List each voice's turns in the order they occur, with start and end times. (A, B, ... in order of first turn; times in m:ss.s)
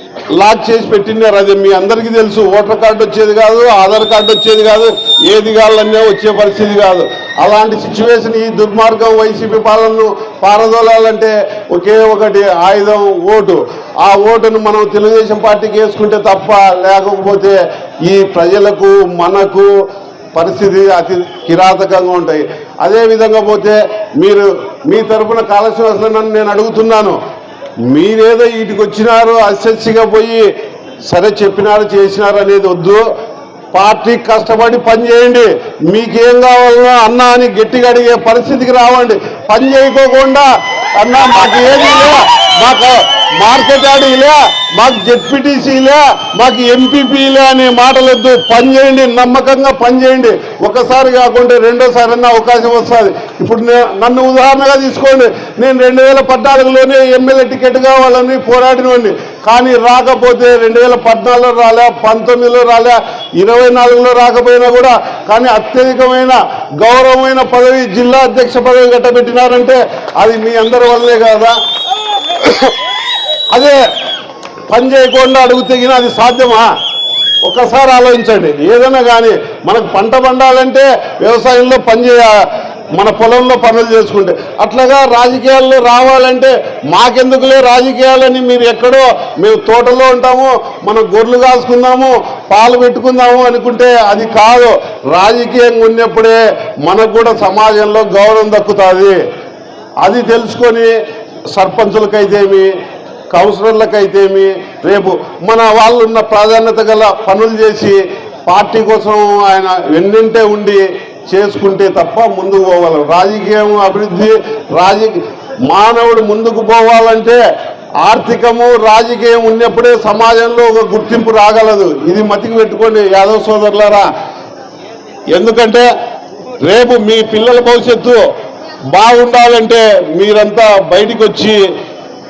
0:00.4-0:19.7 A
0:20.4-0:27.2 A
0:27.9-0:30.4 A
0:31.1-0:33.0 A
0:33.7-0:40.5 A
0:41.0-1:11.5 A
1:12.4-1:12.7 A
1:13.5-1:13.8 A
1:14.7-1:16.7 A
1:17.4-1:22.3 A
1:23.0-1:39.2 A
1:40.0-1:40.9 A
1:41.5-1:42.7 A
1:43.3-1:57.4 A
1:58.0-2:04.1 A
2:05.3-2:05.9 A
2:06.6-2:08.2 A
2:08.9-2:11.6 A